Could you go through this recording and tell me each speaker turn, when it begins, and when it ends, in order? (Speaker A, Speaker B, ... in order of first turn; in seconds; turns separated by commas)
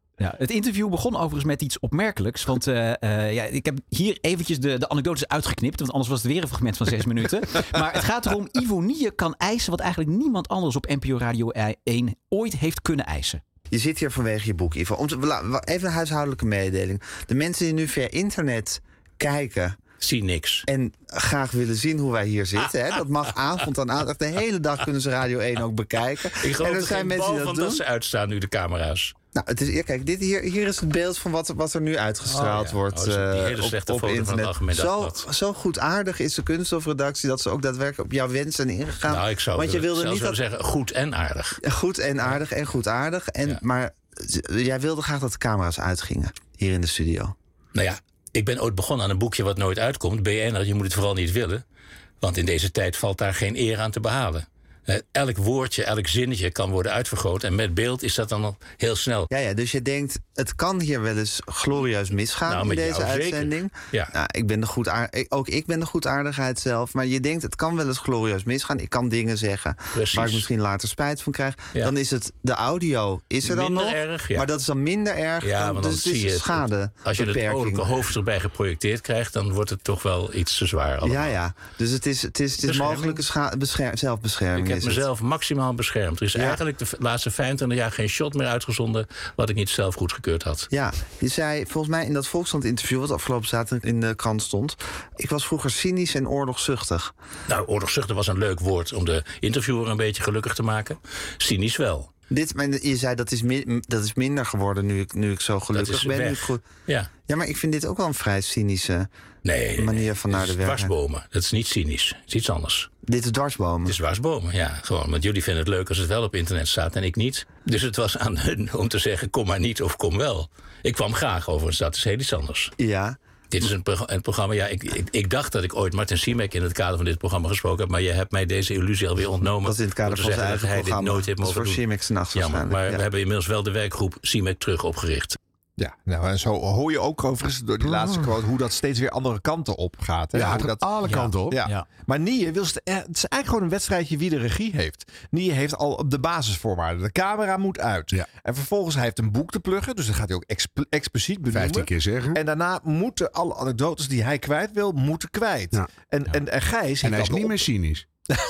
Speaker A: 0.2-13.4, Speaker B: 13.7-19.8, Speaker C: 20.0-20.6, Speaker B: 20.7-27.8, Speaker C: 26.4-29.1, Speaker B: 29.4-40.4, Speaker C: 32.3-35.2, Speaker C: 39.1-41.6, Speaker B: 41.7-47.4, Speaker C: 47.8-51.6, Speaker C: 52.2-59.3, Speaker B: 59.3-77.9, Speaker C: 62.5-64.1, Speaker C: 69.9-70.5, Speaker C: 73.4-74.5, Speaker C: 75.4-81.4, Speaker B: 81.0-85.0, Speaker D: 82.7-83.1, Speaker C: 84.5-90.7, Speaker B: 86.3-86.6, Speaker B: 90.7-97.1, Speaker C: 97.5-102.1, Speaker B: 102.3-106.6, Speaker C: 105.7-107.1, Speaker B: 107.3-109.1, Speaker C: 109.5-112.9, Speaker B: 109.8-110.9, Speaker B: 113.1-114.0, Speaker C: 113.9-122.7, Speaker B: 122.8-123.2, Speaker C: 123.5-135.4, Speaker B: 129.7-133.0, Speaker D: 135.8-140.9, Speaker E: 140.3-141.6, Speaker A: 141.1-141.8, Speaker D: 141.5-157.7, Speaker E: 151.5-152.4, Speaker E: 157.0-158.1